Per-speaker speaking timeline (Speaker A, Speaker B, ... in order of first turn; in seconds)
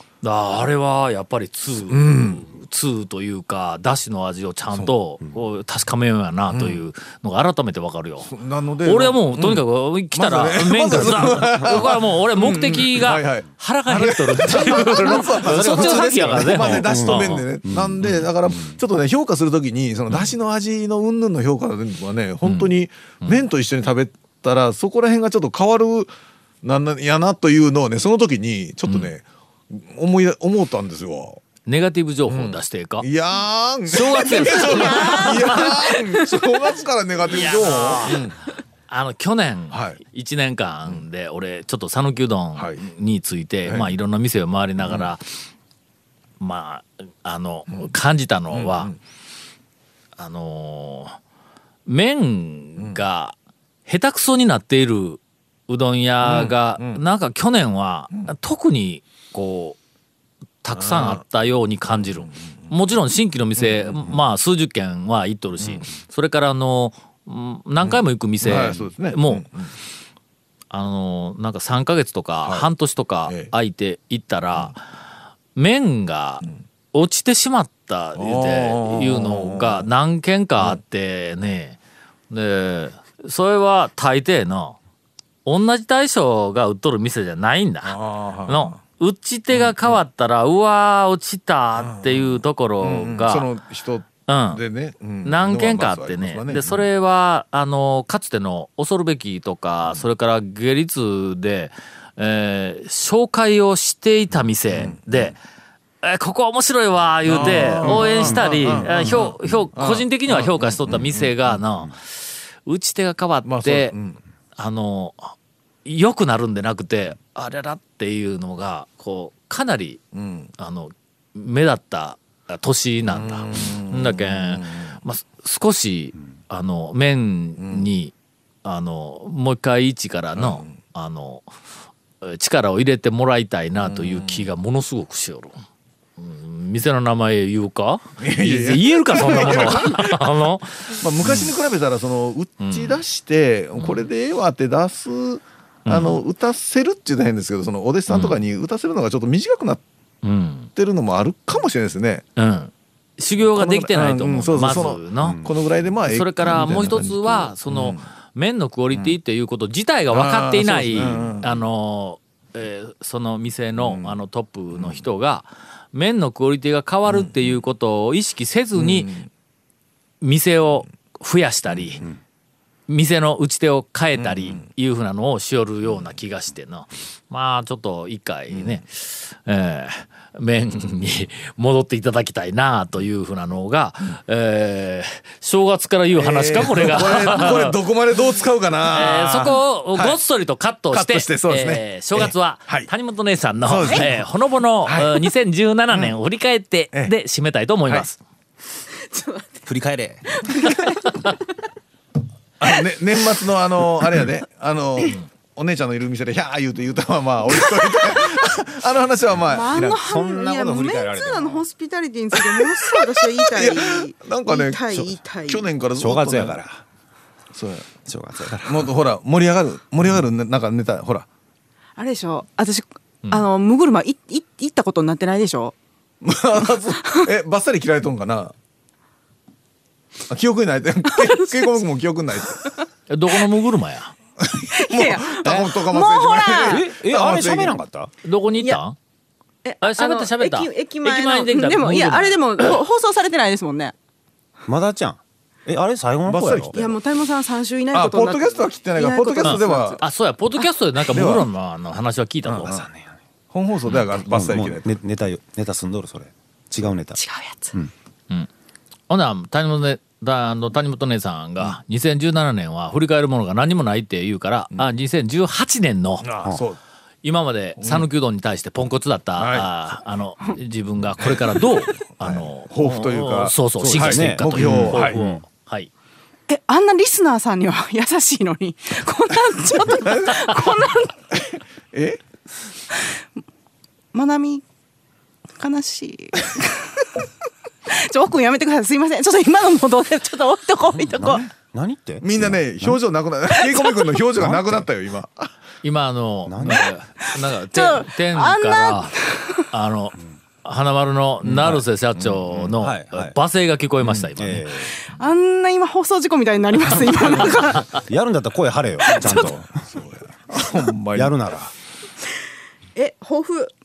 Speaker A: 0.2-8.3, 8.8-17.5, 18.0-18.3, 22.4-22.7, 31.6-33.1, 33.9-36.0, 37.3-38.2, 38.9-45.2, 46.4-48.9, 50.2-51.2, 51.9-53.4, 53.9-59.8, 60.6-69.5, 70.7-74.8, 75.5-81.8, 82.3-84.8, 85.5-93.5, 94.3-94.6, 95.2-105.3, 106.0-114.0, 114.6-115.3, 115.8-120.0, 120.6-128.1, 128.6-131.5, 132.2-135.6, 136.2-141.5, 142.6-143.0, 143.8-144.1, 145.9-146.2, 148.1-148.4, 150.2-150.7, 152.4-155.4, 156.1-169.1, 170.2-172.0, 172.9-187.8, 188.9-198.2, 233.1-234.1, 238.2-239.0, 239.8-242.8, 249.4-252.8, 253.9-254.2, 259.1-266.3, 267.2-275.9, 295.8-299.2, 299.7-304.6
Speaker B: 1.9-2.4, 6.5-6.8, 8.3-26.1, 26.6-31.4, 32.3-38.4, 39.7-40.0, 43.7-43.9, 44.8-45.1, 48.5-49.0, 56.2-57.0, 60.8-61.2, 62.0-62.7, 63.6-64.2, 67.8-69.7, 73.3-73.5, 78.2-79.9, 87.8-88.8, 89.5-90.0, 91.8-96.9, 104.7-105.3, 107.3-111.6, 113.5-114.2, 120.1-120.5, 123.1-125.0, 127.6-127.9, 130.4-130.8, 133.8-134.5, 138.2-140.4, 140.9-149.8, 150.8-152.2, 153.5-158.1, 160.1-161.6, 163.8-164.1, 164.7-165.0, 167.1-167.5, 168.8-169.3, 174.2-174.6, 178.5-178.8, 186.2-190.2, 190.9-192.9, 193.7-194.2, 194.9-195.2, 202.6-210.0, 212.3-212.7, 213.5-214.8, 215.5-216.6, 217.6-217.9, 218.5-221.3, 226.2-228.5, 230.3-232.7, 234.4-237.8, 246.3-246.9, 247.9-250.0, 251.1-251.5, 252.5-252.9, 253.5-254.9, 266.2-266.8, 267.8-268.1, 269.4-269.7, 271.2-275.2, 280.1-280.5, 281.3-282.2, 292.2-295.5, 301.4-302.7, 309.8-311.5
Speaker C: 15.8-18.0, 155.2-155.5, 199.7-200.4, 209.9-211.6, 216.0-216.8, 218.1-218.9, 236.6-238.1, 244.7-246.8, 252.7-253.1, 254.3-257.2, 273.8-275.4, 291.0-293.0, 294.4-294.6, 296.5-296.9, 302.8-303.4, 304.4-304.9, 307.9-309.7, 311.1-311.7
Speaker D: 199.1-199.7, 200.3-201.3, 209.5-215.7, 222.0-225.8, 234.8-236.9, 239.6-243.9, 246.7-250.1, 257.2-257.8, 276.5-281.4, 284.1-284.6, 285.6-287.3, 287.9-291.4, 297.2-299.7, 305.1-308.0, 309.0-309.6, 313.0-313.7